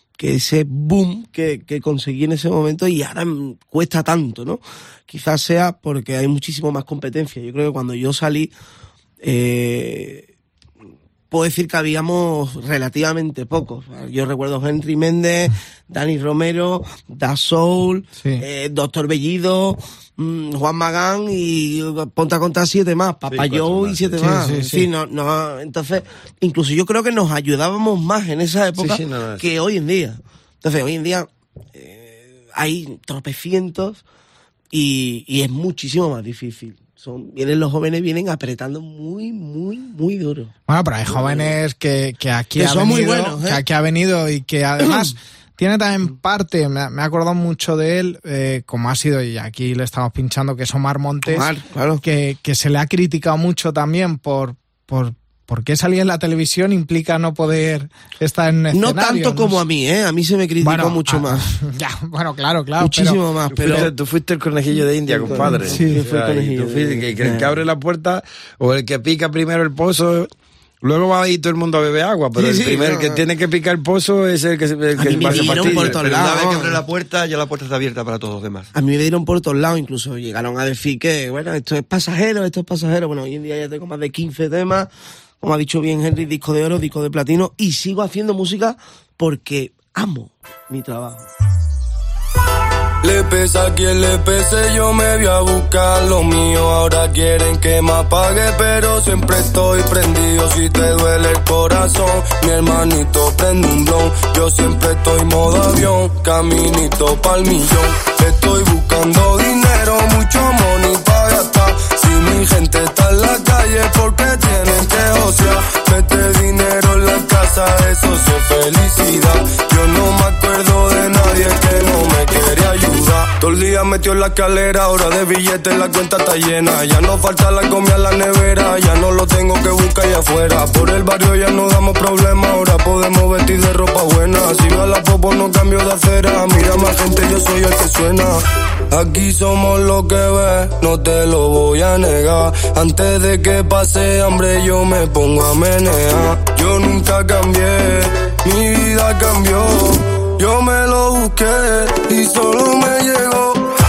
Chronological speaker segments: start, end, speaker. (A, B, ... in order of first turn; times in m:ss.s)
0:00.2-0:08.5 A
0:09.2-0:10.3 A
0:11.3-0:34.0 A
0:23.3-0:24.6 B
0:24.2-0:24.9 C
0:28.8-0:29.5 B
0:34.7-0:40.5 A
0:40.7-0:51.5 C
0:41.1-0:41.5 A
0:42.6-0:43.6 A
0:51.2-0:52.0 A
0:52.0-0:59.6 C
0:58.7-1:01.5 A
1:00.6-1:03.2 C
1:02.8-1:03.9 A
1:03.5-1:10.3 B
1:05.1-1:07.6 A
1:05.4-1:06.0 C
1:10.8-1:16.0 B
1:12.4-1:13.2 A
1:15.0-1:16.8 A
1:15.3-1:18.7 D
1:18.7-1:24.9 A
1:25.4-1:31.2 A
1:33.0-2:33.7 E